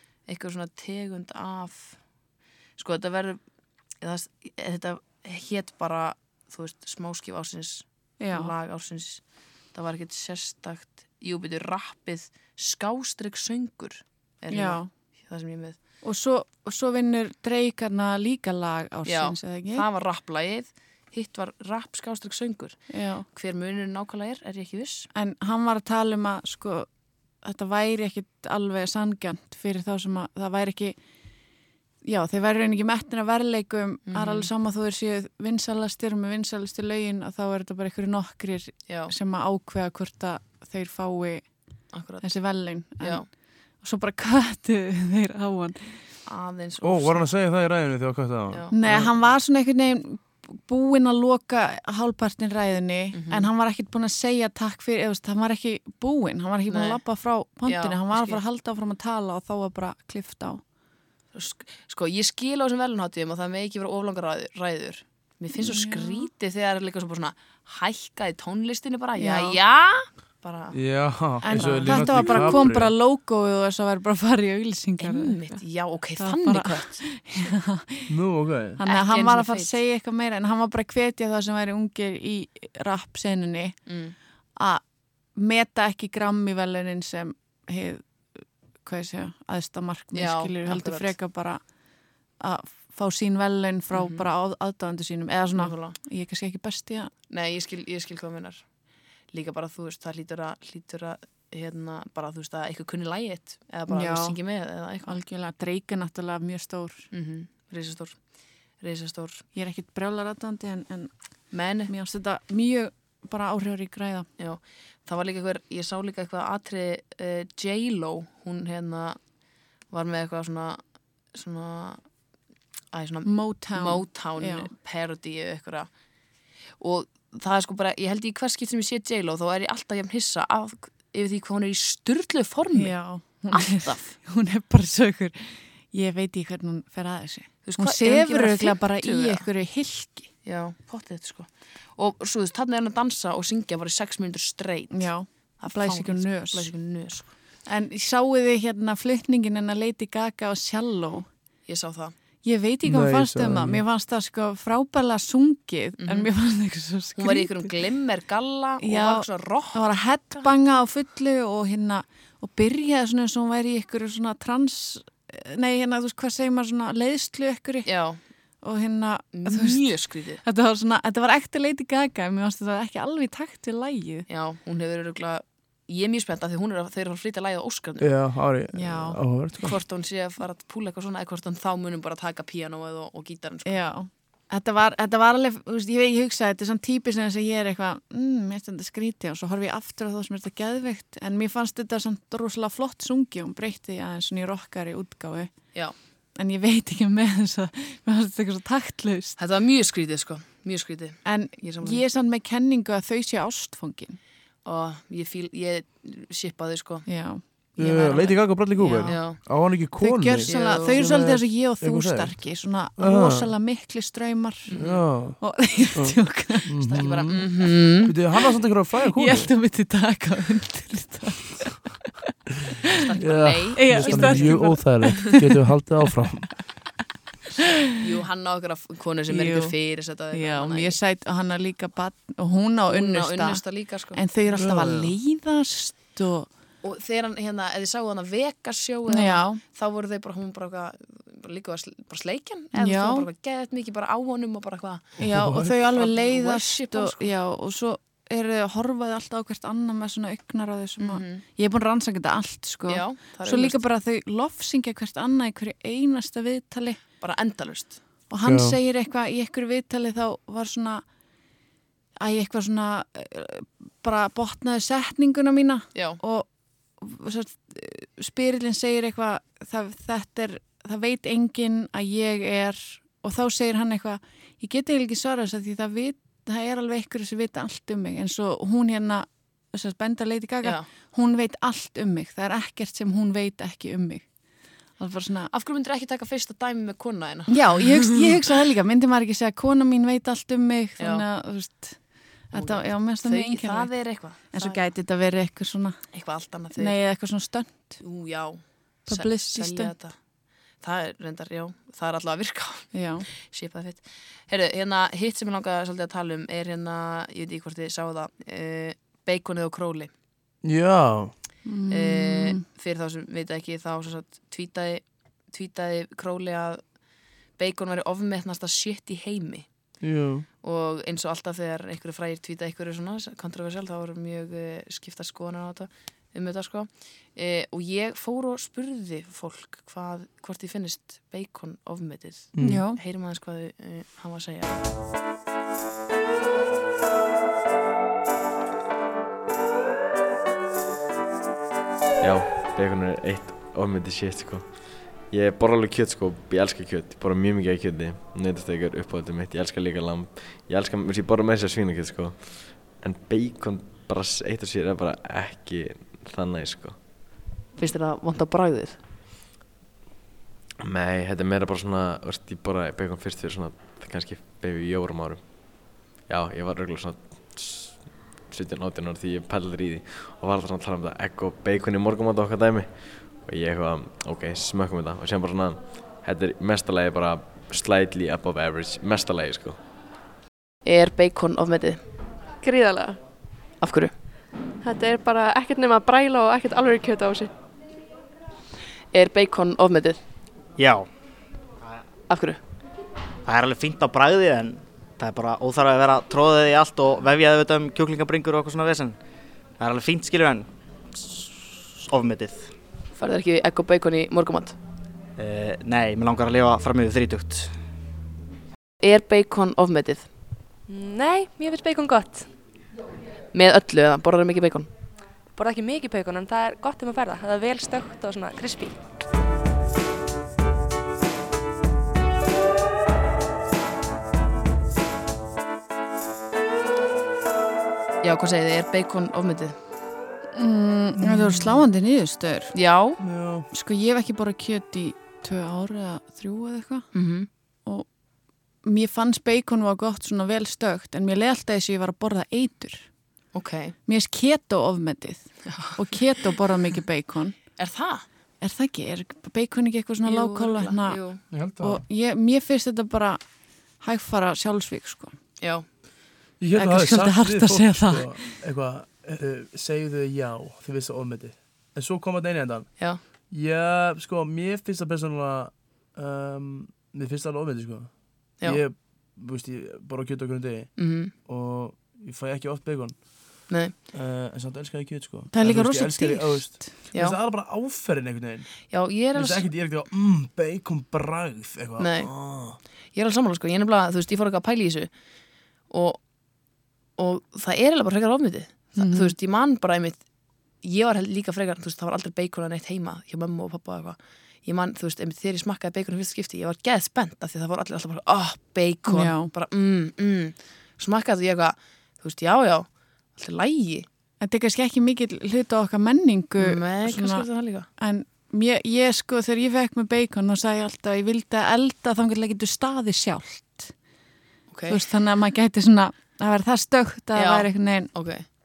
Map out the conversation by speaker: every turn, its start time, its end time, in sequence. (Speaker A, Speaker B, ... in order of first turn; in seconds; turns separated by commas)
Speaker A: 0.3-2.0, Speaker A: 2.8-3.4, Speaker A: 4.0-9.2, Speaker B: 8.2-8.5, Speaker A: 9.7-15.8, Speaker B: 14.5-14.9, Speaker B: 16.0-19.9, Speaker A: 19.1-22.8, Speaker B: 22.9-23.3, Speaker A: 23.3-25.1, Speaker B: 25.1-26.9, Speaker B: 27.4-31.0, Speaker B: 32.0-41.5, Speaker A: 34.1-34.5, Speaker A: 38.9-39.1, Speaker A: 41.9-42.3, Speaker B: 42.2-43.2, Speaker A: 43.0-43.3, Speaker B: 43.8-46.0, Speaker A: 46.3-47.3, Speaker C: 46.8-49.1, Speaker A: 48.5-48.8, Speaker B: 48.7-60.6, Speaker A: 53.1-53.5, Speaker A: 56.7-57.0, Speaker A: 57.7-58.4, Speaker A: 61.3-70.8, Speaker B: 65.5-66.3, Speaker B: 69.2-69.6, Speaker C: 70.7-72.9, Speaker A: 71.4-72.6, Speaker B: 71.4-75.6, Speaker A: 75.0-77.0, Speaker B: 76.2-78.2, Speaker C: 78.1-78.8, Speaker B: 78.8-83.8, Speaker A: 78.8-79.8, Speaker A: 83.9-84.2, Speaker B: 84.6-84.8, Speaker B: 85.4-91.6, Speaker A: 90.1-91.1, Speaker B: 92.4-97.1, Speaker A: 93.9-94.3, Speaker A: 95.5-96.0, Speaker A: 97.3-98.6, Speaker A: 99.3-105.2, Speaker B: 103.9-104.4, Speaker B: 105.1-107.1, Speaker A: 107.1-108.2, Speaker A: 108.8-109.5, Speaker B: 109.5-111.1, Speaker A: 111.5-111.9, Speaker B: 111.9-114.3, Speaker A: 114.4-119.2, Speaker A: 119.9-120.8, Speaker A: 121.3-122.0, Speaker A: 122.9-125.9, Speaker B: 123.3-124.7, Speaker A: 126.8-133.0, Speaker B: 132.7-140.3, Speaker A: 133.5-134.1, Speaker A: 137.7-139.5, Speaker A: 140.4-145.1, Speaker B: 144.9-146.7, Speaker A: 145.6-147.3, Speaker B: 147.7-151.3, Speaker A: 151.7-152.1, Speaker B: 152.4-157.8, Speaker C: 152.8-153.8, Speaker A: 156.0-156.3, Speaker A: 157.2-160.5, Speaker B: 158.8-167.9, Speaker A: 167.8-168.2, Speaker B: 168.6-169.9, Speaker A: 169.3-170.4, Speaker B: 170.4-174.3, Speaker A: 174.3-178.1, Speaker C: 178.0-179.8, Speaker B: 178.7-179.2, Speaker A: 179.6-183.8, Speaker B: 183.7-195.5, Speaker B: 196.4-199.4, Speaker A: 199.4-202.0, Speaker B: 201.2-204.2, Speaker A: 204.7-207.1, Speaker B: 207.1-209.5, Speaker C: 207.8-212.4, Speaker A: 209.1-209.4, Speaker B: 210.0-214.8, Speaker A: 210.5-211.1, Speaker C: 213.0-213.5, Speaker A: 214.7-215.0, Speaker C: 214.8-215.4, Speaker B: 215.4-217.0, Speaker C: 215.9-217.5, Speaker A: 216.8-218.1, Speaker C: 218.0-219.5, Speaker B: 219.1-222.2, Speaker A: 222.9-224.7, Speaker C: 223.2-226.6, Speaker B: 223.8-225.6, Speaker A: 228.0-231.0, Speaker B: 229.3-229.8, Speaker B: 230.3-236.5, Speaker A: 232.9-234.2, Speaker C: 234.6-235.1, Speaker A: 236.8-245.2, Speaker B: 239.1-239.6, Speaker B: 242.8-243.3, Speaker C: 245.2-245.8, Speaker B: 245.2-257.0, Speaker A: 245.9-247.3, Speaker A: 251.0-251.4, Speaker A: 252.9-253.8, Speaker A: 257.2-258.0, Speaker B: 258.3-261.0, Speaker C: 258.4-258.8, Speaker B: 262.2-266.5, Speaker A: 265.9-266.2, Speaker B: 267.0-284.2, Speaker B: 285.0-285.5, Speaker A: 285.5-288.2, Speaker B: 287.5-292.0, Speaker B: 292.5-296.0, Speaker A: 292.5-294.8, Speaker A: 296.1-297.0, Speaker B: 296.8-298.0, Speaker A: 298.0-300.2, Speaker B: 299.1-299.9, Speaker A: 300.8-310.1, Speaker B: 302.9-303.3, Speaker C: 310.6-311.3, Speaker B: 311.6-312.6, Speaker A: 311.9-316.8, Speaker A: 317.6-319.7, Speaker C: 320.0-320.5, Speaker A: 320.6-334.8, Speaker C: 332.5-332.8, Speaker B: 332.6-333.0, Speaker D: 342.2-344.7, Speaker D: 345.3-357.0, Speaker A: 357.8-359.0, Speaker D: 360.8-365.5, Speaker D: 366.3-379.8, Speaker A: 380.9-382.0, Speaker E: 382.6-383.2, Speaker A: 383.8-384.1, Speaker E: 384.8-387.5, Speaker A: 389.1-390.2, Speaker F: 390.8-391.1, Speaker A: 392.3-392.6, Speaker F: 393.4-399.2, Speaker F: 399.8-402.7, Speaker A: 403.2-404.8, Speaker F: 405.4-407.8, Speaker A: 409.0-410.3, Speaker E: 410.9-412.5, Speaker A: 413.5-414.9, Speaker E: 415.5-419.0, Speaker A: 428.2-429.8, Speaker B: 430.6-432.7, Speaker A: 431.2-431.8, Speaker A: 432.7-433.2, Speaker C: 433.2-433.7, Speaker B: 433.7-437.1, Speaker A: 437.1-437.5, Speaker B: 438.8-443.1, Speaker A: 443.5-443.9, Speaker B: 444.1-447.6, Speaker A: 445.7-446.0, Speaker A: 447.8-448.2, Speaker B: 448.6-451.2, Speaker A: 450.2-451.4, Speaker C: 451.5-452.0, Speaker B: 451.8-453.4, Speaker B: 454.0-455.3, Speaker A: 455.6-455.9, Speaker C: 456.6-462.9, Speaker B: 456.8-458.4, Speaker C: 463.5-482.8, Speaker A: 471.0-471.3, Speaker B: 475.5-477.0, Speaker A: 477.1-477.4, Speaker A: 478.9-479.7, Speaker A: 482.0-482.3, Speaker A: 483.1-485.1, Speaker A: 485.9-486.2, Speaker A: 487.2-490.2, Speaker B: 489.0-489.3, Speaker A: 490.8-504.1, Speaker B: 499.1-499.5, Speaker B: 504.4-513.9, Speaker A: 506.6-507.9, Speaker A: 514.7-515.0, Speaker B: 514.9-518.1, Speaker A: 517.4-518.4